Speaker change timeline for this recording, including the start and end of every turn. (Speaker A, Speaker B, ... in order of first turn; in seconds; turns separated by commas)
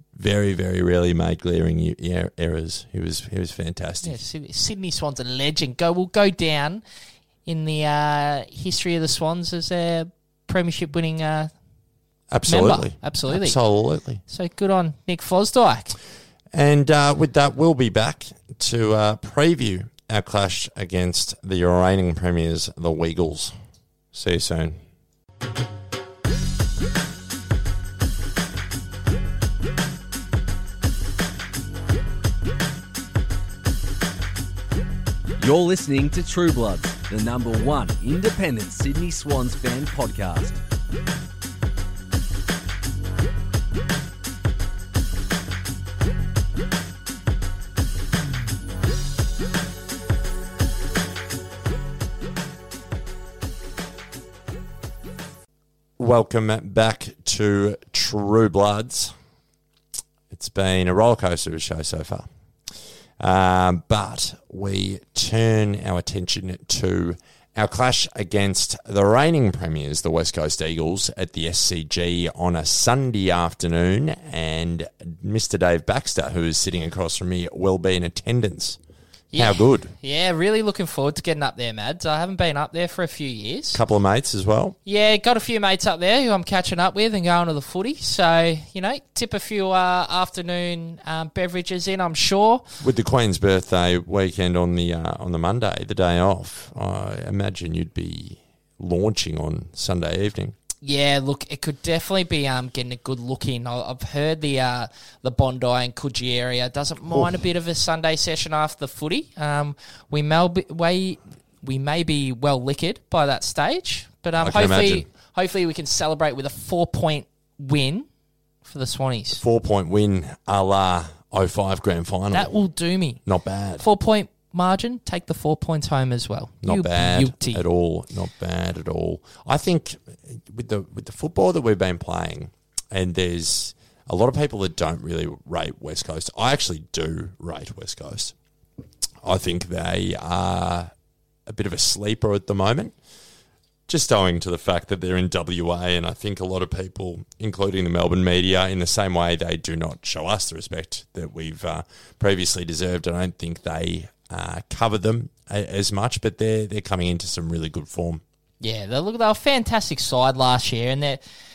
Speaker A: 0.2-4.2, Speaker B: 4.0-6.8, Speaker B: 7.5-11.5, Speaker A: 12.3-14.2, Speaker B: 12.5-13.6, Speaker B: 14.3-16.0, Speaker A: 16.5-23.6, Speaker A: 24.1-24.8, Speaker C: 35.4-40.6, Speaker A: 56.0-59.1, Speaker A: 60.3-62.3, Speaker A: 63.2-78.8, Speaker B: 79.3-83.8, Speaker A: 79.3-79.9, Speaker A: 83.7-84.8, Speaker B: 84.9-92.7, Speaker A: 92.8-100.5, Speaker B: 100.8-118.1, Speaker A: 114.4-115.1, Speaker B: 118.6-119.4, Speaker A: 119.4-122.5, Speaker B: 122.3-123.2, Speaker A: 123.3-123.9, Speaker B: 123.8-127.6, Speaker A: 126.6-138.3, Speaker A: 139.2-140.9, Speaker A: 141.5-142.9, Speaker A: 143.9-158.2, Speaker B: 158.6-161.2